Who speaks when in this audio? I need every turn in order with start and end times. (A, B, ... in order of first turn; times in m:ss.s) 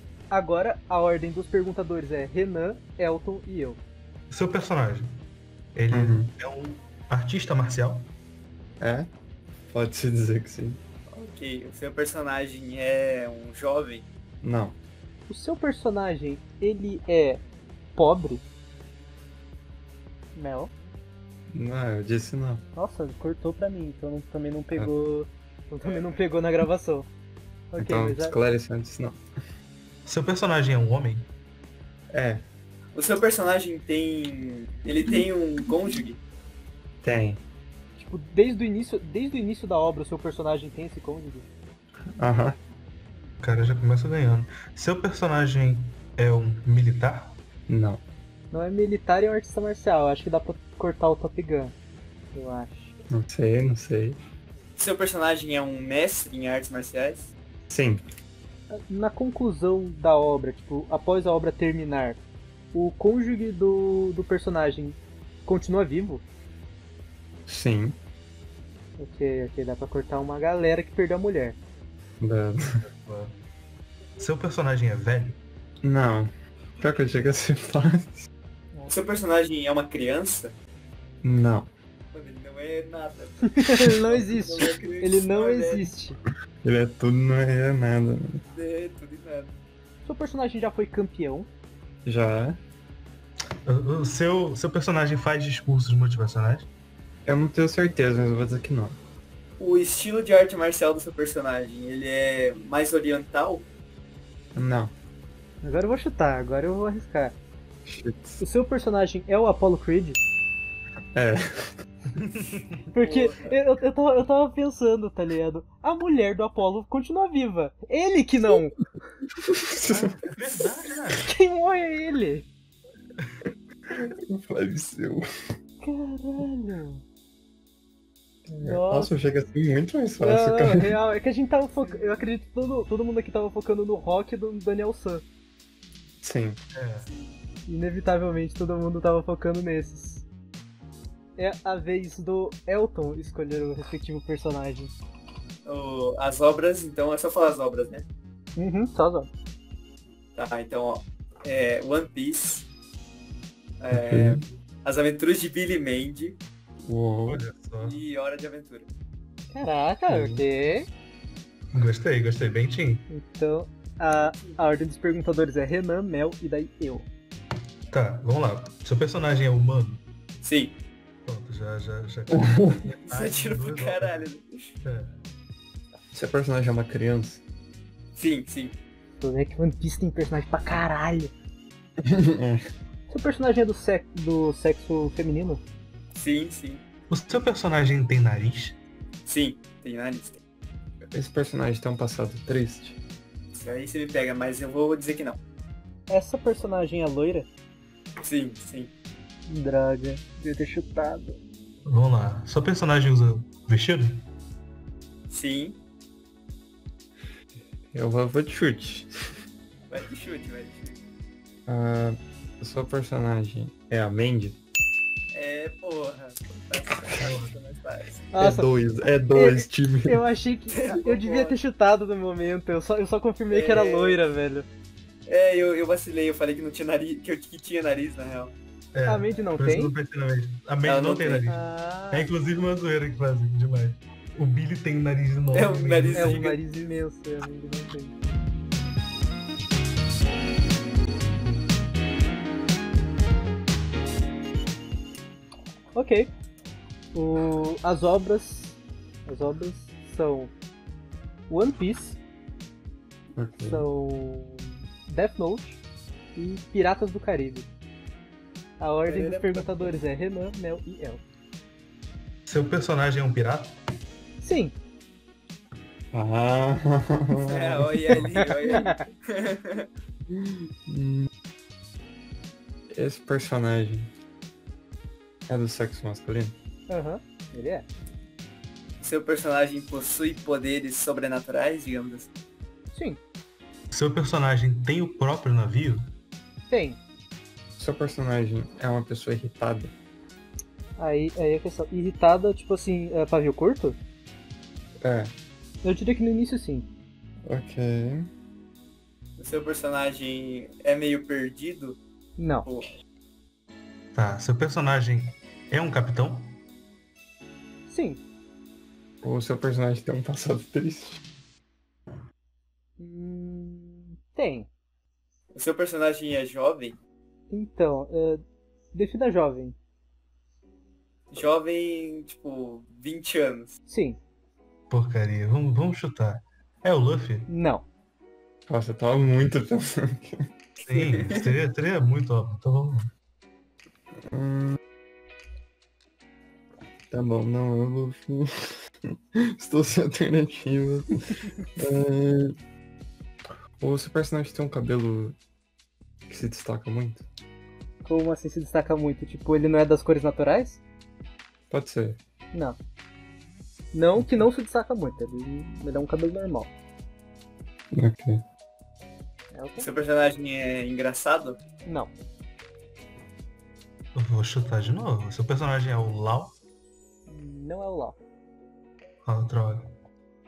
0:00.3-0:03.8 A
0:04.3-0:05.1 B
0:05.7-0:08.1 B
0:05.9-0:06.3 C
0:08.8-0:09.1 C
0:09.7-0:10.8 C
0:11.1-0:14.1 D
0:14.4-0:14.8 C
0:15.3-0:17.4 A
0:18.0-0:18.4 A
0:20.3-0:20.7 A
0:21.5-0:22.6 C
0:22.8-0:27.1 A
0:25.8-0:26.2 D
0:27.7-0:28.3 A
0:27.8-0:29.2 C
0:30.0-0:31.2 B
0:32.1-0:32.4 C
0:32.9-0:36.2 D
0:37.0-0:37.4 C
0:38.0-0:41.5 A
0:42.2-0:42.6 C
0:43.4-0:47.3 B
0:47.7-0:48.0 C
0:48.5-0:51.7 A
0:52.3-0:52.9 A
0:53.1-0:54.2 C
0:54.8-0:57.3 D
0:57.7-0:58.0 C
0:58.7-1:02.2 A
1:02.7-1:06.2 A
1:07.5-1:08.0 C
1:09.0-1:11.6 A
1:12.2-1:12.7 C
1:12.7-1:13.3 B
1:14.2-1:15.4 B
1:15.8-1:18.3 C
1:18.9-1:20.5 D
1:21.2-1:21.7 C
1:22.1-1:25.9 D
1:23.4-1:26.2 A
1:26.6-1:28.4 C
1:28.5-1:29.5 D
1:30.0-1:31.5 A
1:32.0-1:32.6 C
1:33.6-1:36.7 B
1:37.2-1:39.0 C
1:39.6-1:43.7 D
1:44.5-1:44.9 C
1:45.6-1:47.4 A
1:47.8-1:48.4 C
1:48.4-1:50.2 A
1:51.1-1:51.7 C
1:52.1-1:52.9 B
1:52.9-1:58.8 A
1:53.0-1:53.6 D
1:59.4-2:00.3 C
1:59.9-2:01.3 B
2:01.2-2:02.5 A
2:03.9-2:05.2 C
2:05.8-2:07.0 A
2:08.5-2:11.0 C
2:08.5-2:09.1 A
2:10.2-2:15.2 A
2:16.2-2:16.6 C
2:16.7-2:17.1 B
2:17.0-2:17.4 D
2:17.7-2:20.2 A
2:21.4-2:24.9 A
2:25.6-2:28.0 D
2:28.6-2:29.3 A
2:30.4-2:32.7 D
2:33.8-2:36.4 D
2:33.9-2:34.4 C
2:36.8-2:37.4 C
2:37.3-2:38.0 B
2:37.8-2:38.9 D
2:39.5-2:40.9 A
2:40.1-2:40.4 C
2:41.7-2:43.0 B
2:43.1-2:47.1 A
2:47.9-2:50.0 B
2:50.4-2:50.8 D
2:51.2-2:54.3 B
2:52.4-2:52.8 C
2:53.1-2:54.7 D
2:54.8-2:55.2 B
2:56.1-2:57.4 C
2:58.2-2:58.7 D
2:59.2-3:01.3 A
3:02.0-3:02.6 C
3:03.1-3:05.6 A
3:06.1-3:06.8 D
3:07.1-3:08.8 B
3:09.2-3:10.4 D
3:11.1-3:13.0 C
3:13.5-3:15.4 D
3:16.1-3:17.5 A
3:18.2-3:18.9 D
3:19.5-3:21.4 A
3:21.8-3:24.2 B
3:25.3-3:25.8 D
3:27.9-3:29.1 C
3:29.9-3:31.0 D
3:31.7-3:34.6 C
3:35.3-3:38.2 D
3:37.2-3:37.5 B
3:38.3-3:38.7 A
3:38.4-3:40.2 C
3:39.3-3:44.7 A
3:40.7-3:41.6 D
3:43.5-3:44.2 D
3:45.3-3:48.5 D
3:48.9-3:56.5 B
3:49.0-3:49.9 A
3:50.8-3:51.5 D
3:51.4-3:52.3 A
3:55.5-3:56.6 D
3:56.1-3:58.2 A
4:05.9-4:06.3 A
4:07.1-4:10.5 A
4:11.5-4:12.2 A
4:13.4-4:13.9 C
4:13.7-4:15.8 A
4:16.4-4:17.7 A
4:18.8-4:21.2 A
4:19.1-4:19.9 D
4:22.5-4:23.8 B
4:24.4-4:24.7 A
4:26.1-4:28.5 C
4:27.5-4:29.9 D
4:28.4-4:29.0 A
4:30.3-4:31.3 C
4:32.9-4:34.1 C
4:35.5-4:36.5 C
4:36.9-4:37.8 A
4:39.0-4:42.3 D
4:42.9-4:43.2 A
4:43.9-4:46.1 B
4:46.7-4:47.0 A
4:47.8-4:49.9 C
4:51.0-4:54.0 A
4:55.0-4:55.3 C
4:55.8-4:56.9 A
4:57.4-4:58.3 C
4:59.4-5:02.0 D
5:02.4-5:02.6 A
5:02.6-5:02.9 D
5:04.1-5:06.6 B
5:07.9-5:08.2 A
5:09.2-5:11.2 C
5:13.0-5:14.7 A
5:15.5-5:17.0 D
5:17.5-5:18.4 A
5:18.9-5:19.8 A
5:21.3-5:23.8 D
5:23.9-5:24.2 A
5:24.9-5:27.5 B
5:27.5-5:27.8 A
5:28.7-5:30.5 C
5:30.8-5:33.1 B
5:30.9-5:31.4 D
5:34.3-5:34.8 C
5:37.1-5:42.5 C
5:43.8-5:45.4 C
5:46.3-5:47.2 C
5:48.0-5:50.8 A
5:51.7-5:52.2 C
5:52.5-5:52.8 A
5:53.9-5:56.7 A
5:57.9-5:58.4 C
5:59.5-5:59.9 A
5:59.8-6:01.6 D
6:01.8-6:02.1 A
6:04.1-6:06.5 B
6:07.3-6:08.2 A
6:09.2-6:09.9 B